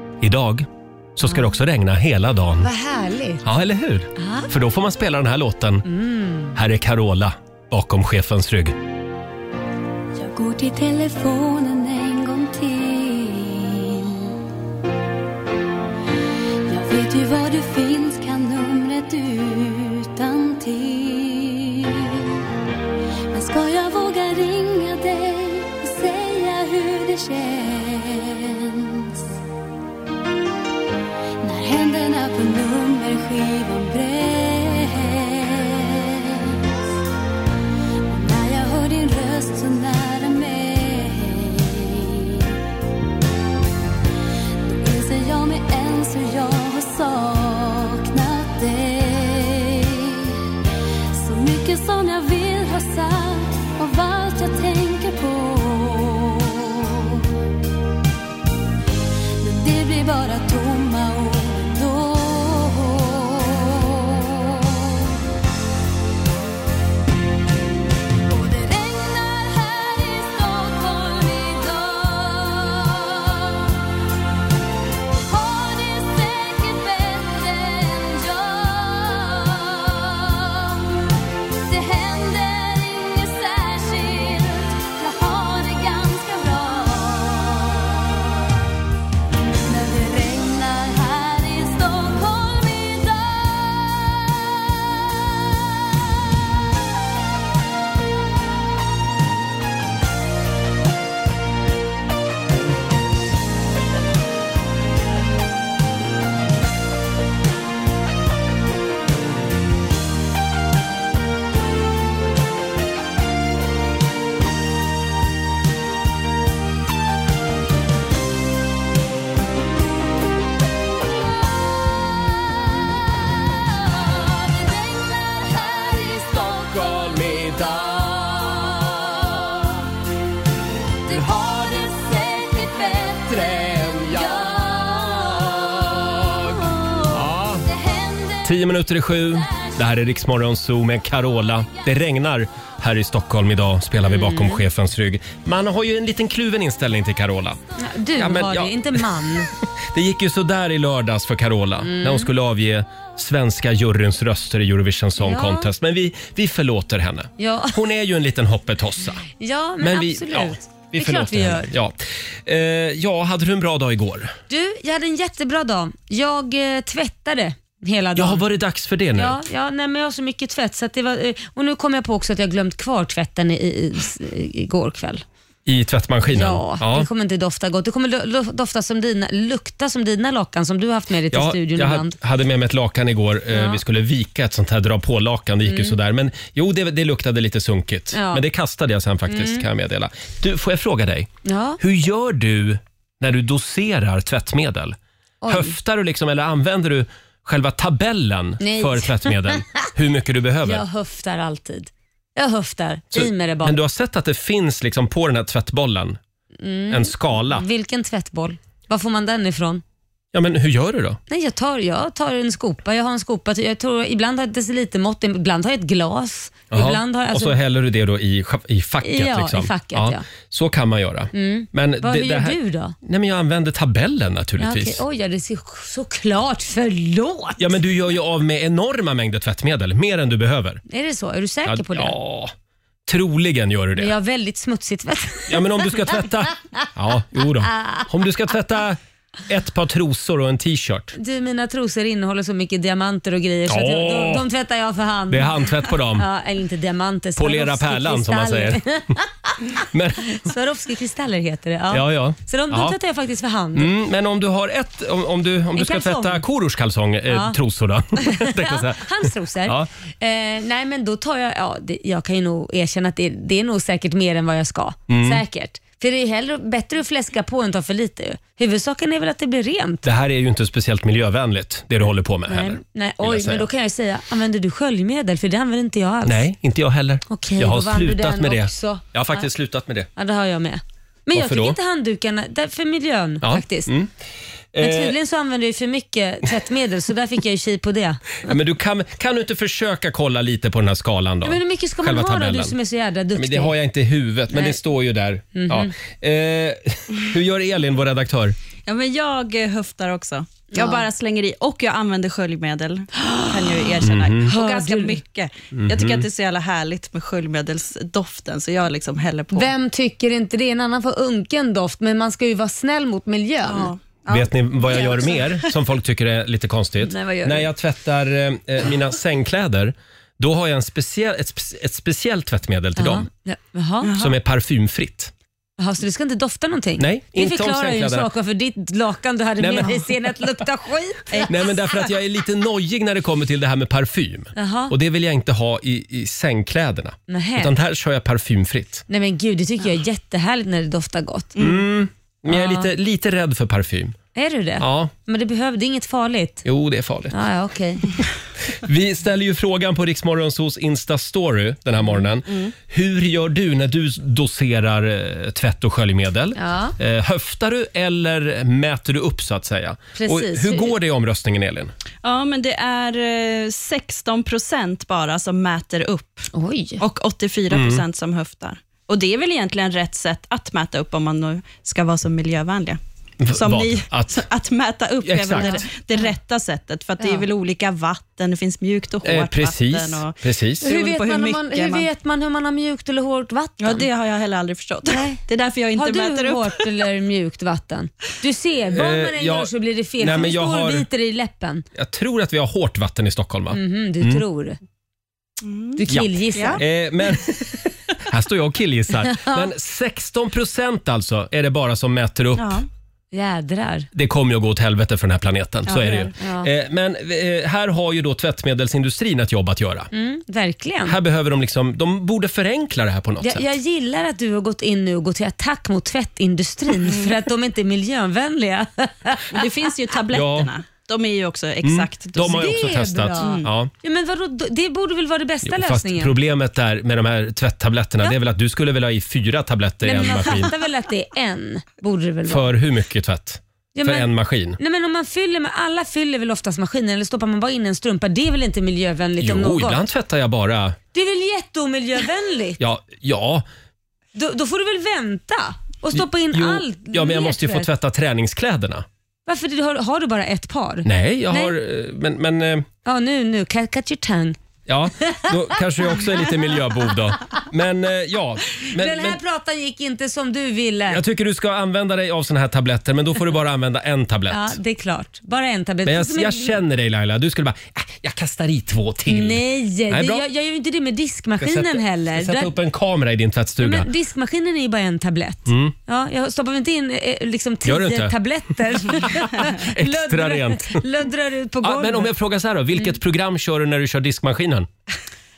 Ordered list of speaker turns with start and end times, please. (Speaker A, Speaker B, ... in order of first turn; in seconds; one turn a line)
Speaker A: 0.2-2.7
Speaker B: 1.2-1.5
Speaker B: 2.6-3.4
Speaker A: 3.4-5.9
Speaker B: 4.2-4.5
Speaker B: 5.9-6.5
Speaker A: 6.5-8.8
Speaker C: 10.2-14.4
Speaker C: 16.7-22.3
Speaker C: 23.3-29.2
Speaker C: 31.4-36.6
Speaker C: 38.1-42.5
Speaker C: 44.6-50.4
Speaker C: 51.1-57.3
Speaker C: 59.4-65.1
Speaker C: 68.3-73.8
Speaker C: 75.2-81.0
Speaker C: 81.6-88.3
Speaker C: 89.7-94.8
Speaker C: 124.1-127.2
Speaker A: 126.2-128.2
Speaker C: 128.2-128.7
Speaker A: 131.1-131.5
Speaker C: 131.1-135.8
Speaker A: 133.4-136.5
Speaker A: 137.1-137.7
Speaker C: 137.7-138.5
Speaker A: 138.4-147.6
Speaker B: 144.1-144.6
Speaker B: 147.8-149.5
Speaker A: 148.2-149.1
Speaker A: 149.8-159.2
Speaker B: 151.8-152.3
Speaker B: 155.2-155.7
Speaker B: 157.4-157.8
Speaker B: 159.4-161.7
Speaker A: 159.8-164.3
Speaker B: 164.5-168.4
Speaker A: 168.2-169.4
Speaker B: 169.2-175.2
Speaker A: 175.7-177.1
Speaker B: 176.3-182.2
Speaker A: 181.3-200.8
Speaker B: 183.5-183.8
Speaker B: 185.7-186.0
Speaker B: 188.1-188.4
Speaker B: 189.3-189.7
Speaker B: 191.4-191.8
Speaker B: 195.4-195.8
Speaker B: 198.6-199.8
Speaker B: 200.6-203.8
Speaker A: 203.1-206.2
Speaker B: 206.6-209.8
Speaker A: 206.9-207.7
Speaker A: 210.3-211.2
Speaker B: 211.3-217.6
Speaker A: 216.7-225.0
Speaker B: 219.0-220.2
Speaker B: 221.3-223.0
Speaker B: 224.6-227.8
Speaker A: 227.6-230.8
Speaker B: 230.9-232.2
Speaker A: 231.7-232.5
Speaker A: 233.1-234.1
Speaker B: 234.0-235.9
Speaker A: 235.5-241.2
Speaker B: 237.7-238.1
Speaker B: 241.2-253.9
Speaker A: 243.7-244.5
Speaker A: 245.3-246.3
Speaker A: 247.4-248.8
Speaker A: 249.8-250.5
Speaker A: 251.9-253.0
Speaker A: 253.8-259.9
Speaker B: 255.8-256.4
Speaker B: 257.3-257.6
Speaker B: 258.2-270.1
Speaker A: 265.1-265.4
Speaker A: 270.0-273.7
Speaker B: 272.5-276.4
Speaker A: 276.2-280.1
Speaker B: 277.3-279.5
Speaker B: 280.2-283.9
Speaker A: 281.3-281.8
Speaker A: 283.4-284.1
Speaker A: 284.7-285.2
Speaker B: 284.8-288.4
Speaker A: 288.4-292.8
Speaker B: 291.4-293.7
Speaker A: 293.4-298.6
Speaker B: 294.5-294.8
Speaker B: 295.5-295.9
Speaker D: 298.9-309.7
Speaker B: 300.7-301.1
Speaker B: 303.2-303.8
Speaker A: 304.0-304.5
Speaker B: 304.5-305.2
Speaker A: 305.7-306.3
Speaker B: 309.5-313.9
Speaker D: 313.7-315.7
Speaker A: 314.3-323.3
Speaker B: 317.1-317.7
Speaker B: 323.0-324.1
Speaker D: 324.0-324.4
Speaker A: 324.2-325.3
Speaker B: 325.8-331.8
Speaker A: 327.0-328.3
Speaker A: 329.6-330.1
Speaker A: 331.5-339.0
Speaker B: 334.6-334.9
Speaker B: 337.3-337.7
Speaker B: 339.1-341.7
Speaker A: 341.6-344.2
Speaker B: 342.5-342.9
Speaker B: 344.4-346.6
Speaker A: 344.8-345.1
Speaker A: 346.6-347.3
Speaker B: 347.3-348.1
Speaker A: 348.7-361.9
Speaker B: 356.6-356.9
Speaker B: 360.2-360.9
Speaker D: 362.2-366.5
Speaker B: 366.5-367.0
Speaker D: 367.0-373.0
Speaker A: 367.7-368.0
Speaker A: 373.4-374.4
Speaker D: 373.5-382.1
Speaker A: 375.2-375.8
Speaker B: 375.5-376.3
Speaker B: 377.2-377.5
Speaker A: 379.2-380.9
Speaker B: 380.8-384.1
Speaker D: 383.8-386.9
Speaker B: 385.1-385.4
Speaker B: 386.0-391.9
Speaker A: 388.9-391.1
Speaker A: 391.9-394.4
Speaker B: 393.7-394.8
Speaker D: 395.6-396.0
Speaker B: 396.0-396.8
Speaker A: 396.1-402.8
Speaker D: 396.6-396.8
Speaker B: 399.2-399.7
Speaker D: 402.6-402.9
Speaker B: 403.3-404.1
Speaker A: 404.1-410.1
Speaker D: 405.9-406.3
Speaker B: 406.4-406.7
Speaker B: 410.1-411.2
Speaker A: 411.1-413.7
Speaker B: 413.4-419.7
Speaker D: 419.5-422.7
Speaker A: 420.3-420.7
Speaker A: 421.8-423.9
Speaker B: 422.4-426.3
Speaker D: 423.4-423.7
Speaker A: 425.6-430.7
Speaker B: 430.0-432.7
Speaker A: 432.5-434.8
Speaker B: 433.9-440.0
Speaker A: 439.4-441.0
Speaker B: 441.1-442.8
Speaker A: 442.8-443.7
Speaker B: 444.4-447.9
Speaker A: 446.1-449.1
Speaker B: 449.5-451.7
Speaker A: 451.1-452.9
Speaker B: 453.1-454.6
Speaker A: 454.9-459.4
Speaker B: 458.8-461.2
Speaker A: 461.1-464.8
Speaker B: 464.5-466.8
Speaker A: 466.1-470.4
Speaker B: 469.3-472.7
Speaker A: 471.6-474.1
Speaker B: 473.8-482.3
Speaker A: 475.7-475.9
Speaker A: 477.9-478.4
Speaker A: 479.1-481.0
Speaker A: 481.8-484.9